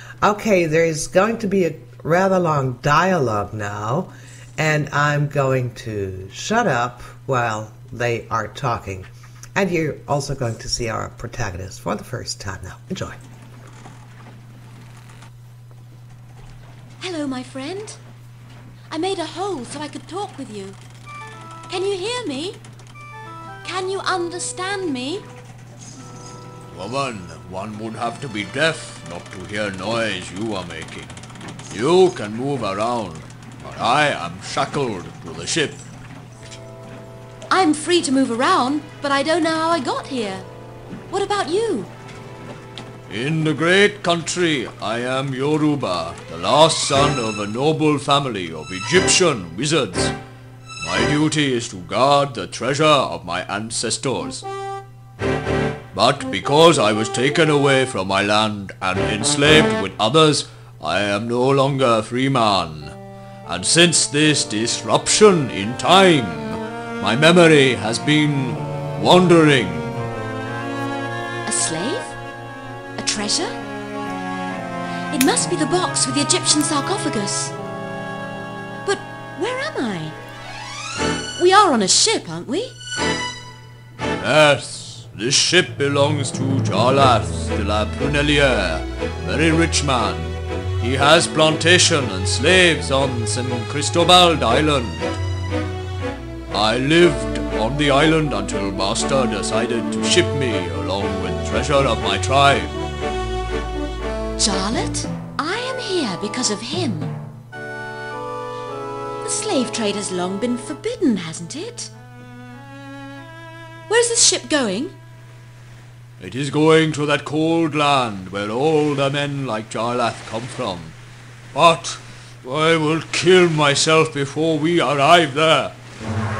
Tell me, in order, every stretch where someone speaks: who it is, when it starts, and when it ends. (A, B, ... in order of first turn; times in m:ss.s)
0:00.2-0:13.2 A
0:17.0-0:18.0 B
0:18.9-0:20.8 B
0:21.7-0:22.6 B
0:23.6-0:25.3 B
0:26.7-0:31.2 C
0:31.7-0:35.8 C
0:37.5-0:40.5 B
0:41.1-0:41.9 B
0:43.1-0:50.2 C
0:50.8-0:54.4 C
0:55.9-1:09.9 C
1:11.4-1:12.2 B
1:13.0-1:13.5 B
1:15.1-1:17.5 B
1:18.8-1:20.2 B
1:21.4-1:22.8 B
1:24.2-1:35.2 C
1:36.5-1:42.8 C
1:44.4-1:47.2 B
1:49.2-1:51.9 B
1:53.9-1:55.0 B
1:56.2-2:01.0 C
2:01.5-2:05.8 C